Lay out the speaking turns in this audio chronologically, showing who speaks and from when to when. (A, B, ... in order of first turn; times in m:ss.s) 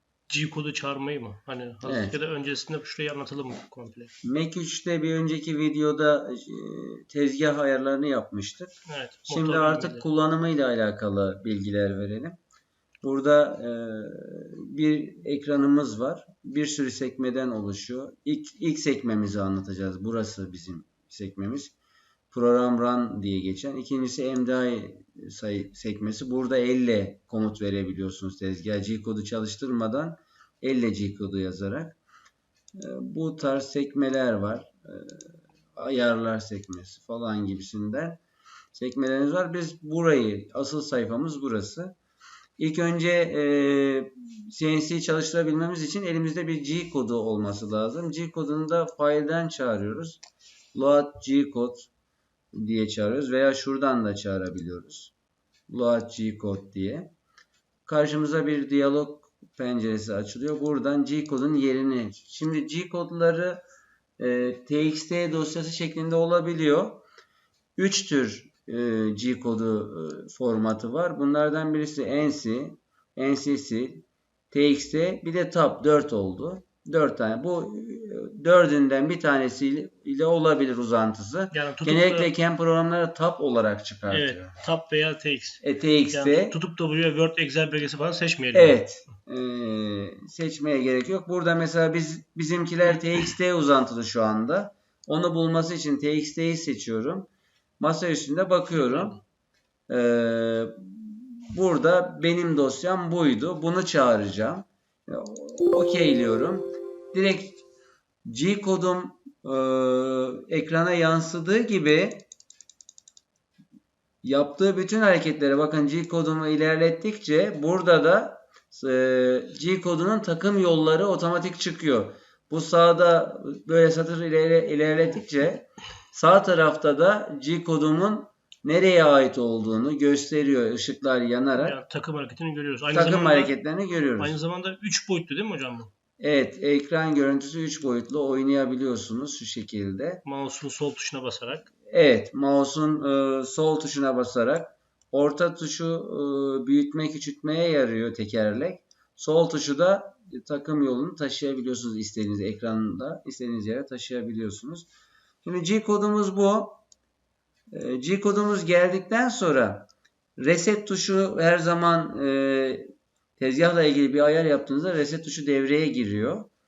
0:00.3-0:04.1 A
0:01.8-0:02.2 B
0:04.2-0:08.7 B
0:08.9-0:10.0 A
0:09.3-0:12.4 B
0:13.0-0:21.7 B
0:22.3-0:32.0 B
0:32.8-0:38.2 B
0:38.7-0:42.0 B
0:42.6-0:50.2 B
0:50.7-0:51.9 B
0:52.5-0:55.1 B
0:55.7-0:57.1 B
0:57.9-1:03.6 B
1:04.2-1:07.0 B
1:07.8-1:24.6 B
1:21.5-1:22.3 A
1:24.1-1:28.8 A
1:25.6-1:26.6 B
1:28.5-1:37.3 B
1:37.8-1:39.2 B
1:38.7-1:39.2 A
1:39.9-1:47.6 B
1:48.2-1:52.3 B
1:54.2-2:11.8 B
2:11.6-2:13.5 A
2:12.9-2:14.4 B
2:14.2-2:15.9 A
2:16.2-2:20.2 B
2:20.2-2:21.7 A
2:21.9-2:34.9 B
2:35.4-2:36.8 B
2:37.7-2:46.5 B